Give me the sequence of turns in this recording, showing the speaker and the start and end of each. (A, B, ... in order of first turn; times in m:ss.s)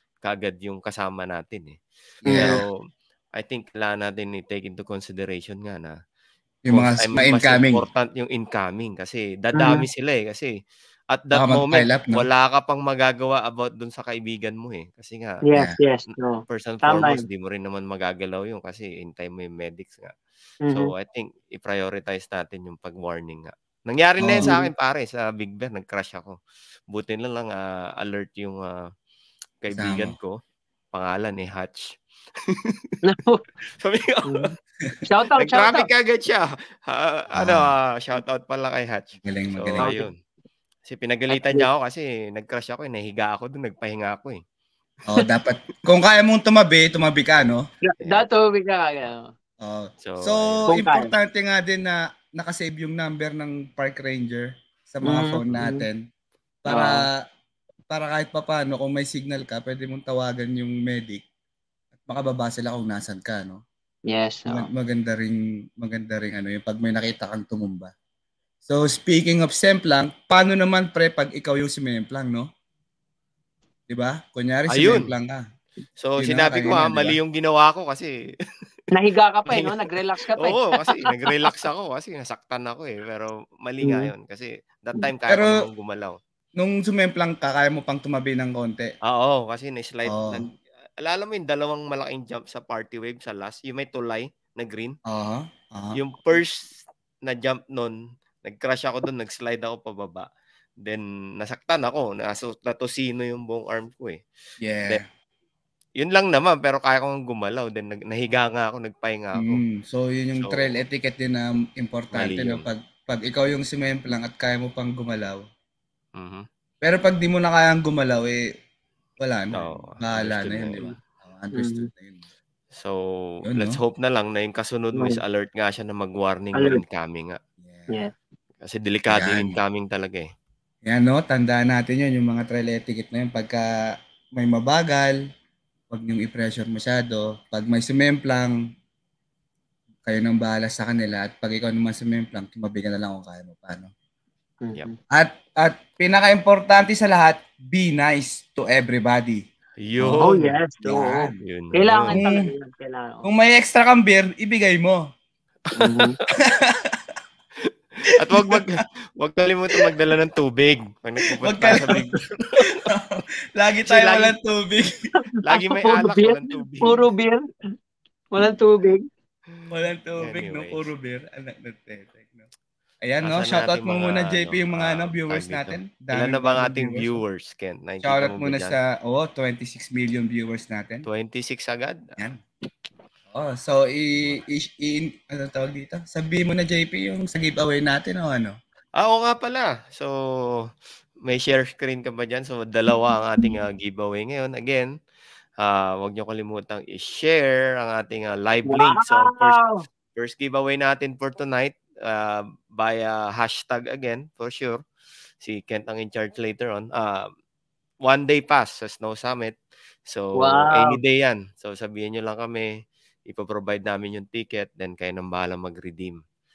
0:00.2-0:01.8 A
0:02.2-0:02.6 B
0:02.3-0:02.6 C
0:02.3-0:02.7 A
0:03.4-0:05.9 A
0:06.6-0:07.8 B
0:06.7-0:10.5 A
0:09.6-0:09.8 C
0:11.1-0:15.4 A
0:11.3-0:12.2 B
0:15.4-0:17.2 C
0:16.5-0:20.1 A
0:20.6-0:20.9 C
0:20.7-0:26.4 A
0:24.2-0:24.5 B
0:24.4-0:24.7 C
0:26.9-0:28.9 A
0:29.6-0:30.4 A
0:29.7-0:30.1 B
0:30.9-0:32.9 A
0:33.0-0:33.4 C
0:33.8-0:34.4 A
0:34.2-0:34.5 C
0:35.0-0:35.9 C
0:35.4-0:40.1 A
0:37.3-0:37.7 B
0:39.2-0:39.9 B
0:39.8-0:40.1 C
0:40.8-0:44.4 A
0:41.3-0:41.7 C
0:45.1-0:47.6 B
0:47.8-0:49.3 C
0:49.6-0:56.0 B
0:50.0-0:50.7 A
0:50.7-0:51.1 C
0:55.0-0:55.8 C
0:56.6-0:57.1 B
0:56.7-0:57.0 C
0:57.9-1:01.2 B
1:02.0-1:03.6 B
1:04.1-1:04.7 C
1:04.5-1:07.9 B
1:08.6-1:12.5 B
1:13.9-1:15.4 B
1:14.7-1:15.1 A
1:16.0-1:18.1 A
1:16.2-1:17.2 B
1:18.9-1:21.5 C
1:19.5-1:19.8 A
1:20.4-1:26.2 A
1:23.8-1:24.1 C
1:25.3-1:25.6 B
1:26.6-1:28.9 B
1:29.0-1:35.0 A
1:30.1-1:30.5 B
1:35.1-1:36.0 B
1:35.9-1:40.3 A
1:40.8-1:44.2 A
1:44.6-1:45.0 B
1:46.0-1:49.6 A
1:49.4-1:55.4 B
1:50.4-1:50.8 A
1:52.1-1:52.7 A
1:56.2-1:56.4 A
1:56.8-1:58.4 B
1:59.2-2:02.2 B
1:59.5-2:00.9 A
2:01.5-2:01.9 C
2:02.7-2:07.4 A
2:03.4-2:03.8 B
2:04.9-2:05.2 C
2:06.5-2:06.8 C
2:07.6-2:07.9 B
2:08.6-2:10.3 A
2:09.1-2:09.6 B
2:10.8-2:13.7 B
2:14.4-2:15.2 B
2:15.9-2:18.6 B
2:20.0-2:23.9 B
2:24.6-2:25.0 C
2:25.1-2:29.4 B
2:29.8-2:32.2 A
2:30.0-2:31.4 B
2:30.2-2:33.3 C
2:32.1-2:32.5 B
2:33.2-2:35.0 B
2:35.7-2:36.2 A
2:35.7-2:36.2 C
2:36.4-2:37.1 B
2:37.6-2:42.7 A
2:38.3-2:38.6 B
2:41.4-2:42.0 B
2:42.6-2:44.9 B
2:43.8-2:44.3 A
2:45.2-2:47.4 C
2:45.4-2:47.1 A
2:48.3-2:49.1 C
2:49.7-2:52.5 B
2:50.2-2:50.8 A
2:53.0-2:57.2 B
2:53.2-2:58.8 A
2:58.0-3:01.0 B
3:01.0-3:02.1 A
3:03.3-3:08.5 B
3:09.0-3:10.7 A
3:11.2-3:14.9 A
3:15.6-3:19.6 A
3:18.7-3:19.8 C
3:20.2-3:24.8 A
3:25.4-3:27.3 A
3:28.0-3:29.5 A
3:30.1-3:32.7 A
3:30.4-3:31.0 C
3:33.3-3:36.2 A